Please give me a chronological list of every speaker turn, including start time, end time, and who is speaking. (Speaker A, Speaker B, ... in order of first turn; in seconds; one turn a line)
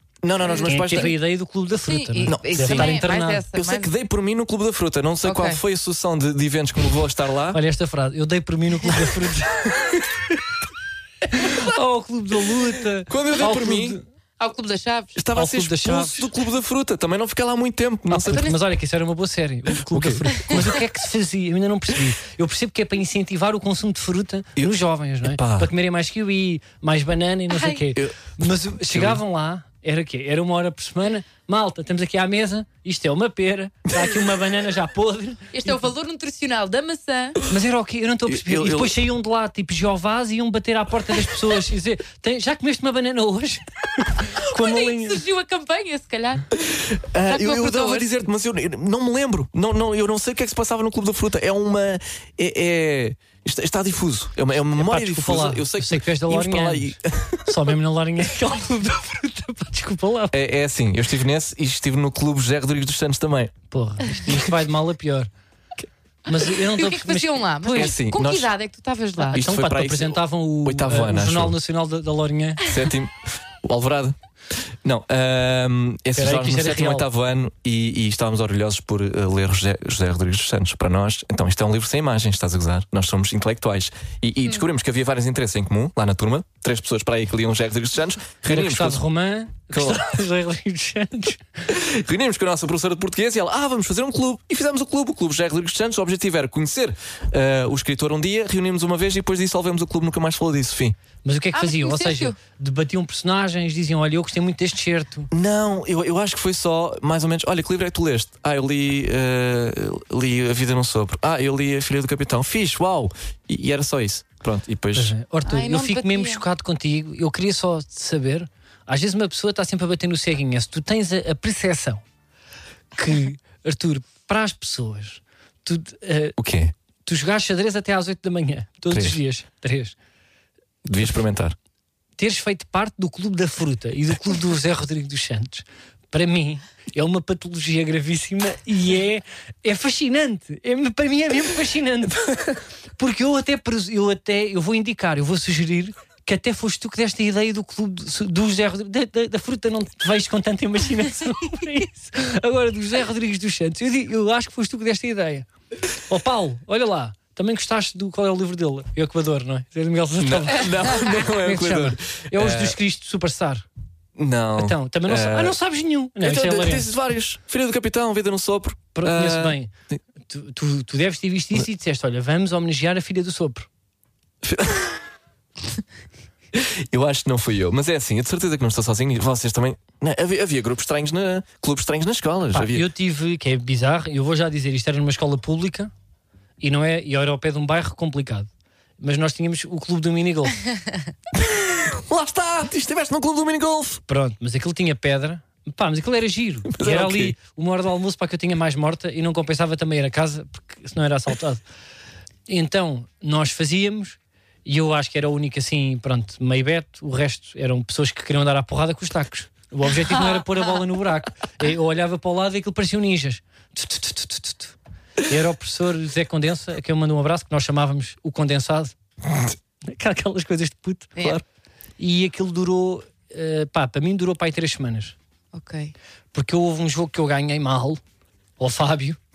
Speaker A: 0.2-1.1
Speaker B: 0.4-1.1
Speaker C: 0.7-3.4
Speaker B: 1.9-3.9
Speaker A: 2.3-7.6
Speaker B: 5.2-5.6
Speaker C: 7.5-9.9
Speaker C: 11.3-14.0
Speaker A: 13.1-14.0
Speaker B: 14.4-15.2
Speaker A: 15.2-18.5
Speaker C: 15.4-16.3
Speaker C: 18.1-35.8
Speaker B: 18.3-18.6
Speaker A: 19.8-20.8
Speaker A: 24.6-25.7
Speaker B: 27.5-27.8
Speaker A: 27.9-29.2
Speaker B: 35.5-37.4
Speaker C: 37.5-45.2
Speaker A: 38.3-39.0
Speaker B: 44.4-46.5
Speaker A: 46.6-57.6
Speaker B: 47.3-48.1
Speaker C: 54.7-60.4
Speaker A: 60.3-63.5
Speaker C: 63.7-65.3
Speaker C: 66.3-67.9
Speaker B: 66.4-69.4
Speaker A: 67.8-68.5
Speaker C: 69.3-72.6
Speaker A: 69.3-71.6
Speaker A: 72.6-74.2
Speaker A: 74.8-89.0
Speaker C: 76.2-77.1
Speaker C: 88.5-91.7
Speaker A: 89.7-90.1
Speaker A: 91.7-101.0
Speaker C: 101.2-105.3
Speaker B: 101.5-102.3
Speaker A: 105.3-115.1
Speaker C: 115.0-122.0
Speaker B: 115.5-116.4
Speaker C: 123.0-126.4
Speaker A: 126.4-126.7
Speaker C: 127.1-130.0
Speaker A: 128.9-129.2
Speaker A: 130.8-131.6
Speaker C: 132.2-155.5
Speaker C: 156.1-163.7
Speaker A: 160.2-162.8
Speaker A: 164.2-165.6
Speaker C: 164.6-166.9
Speaker A: 166.2-170.0
Speaker C: 168.9-173.7
Speaker A: 174.4-175.0
Speaker A: 176.5-182.9
Speaker C: 182.5-185.9
Speaker C: 186.6-188.5
Speaker C: 189.0-190.6
Speaker A: 191.3-194.0
Speaker C: 194.1-201.6
Speaker A: 196.7-197.4
Speaker C: 202.5-218.9
Speaker C: 219.8-221.2
Speaker C: 222.0-225.2
Speaker B: 225.5-225.9
Speaker C: 226.3-228.0
Speaker C: 228.6-229.2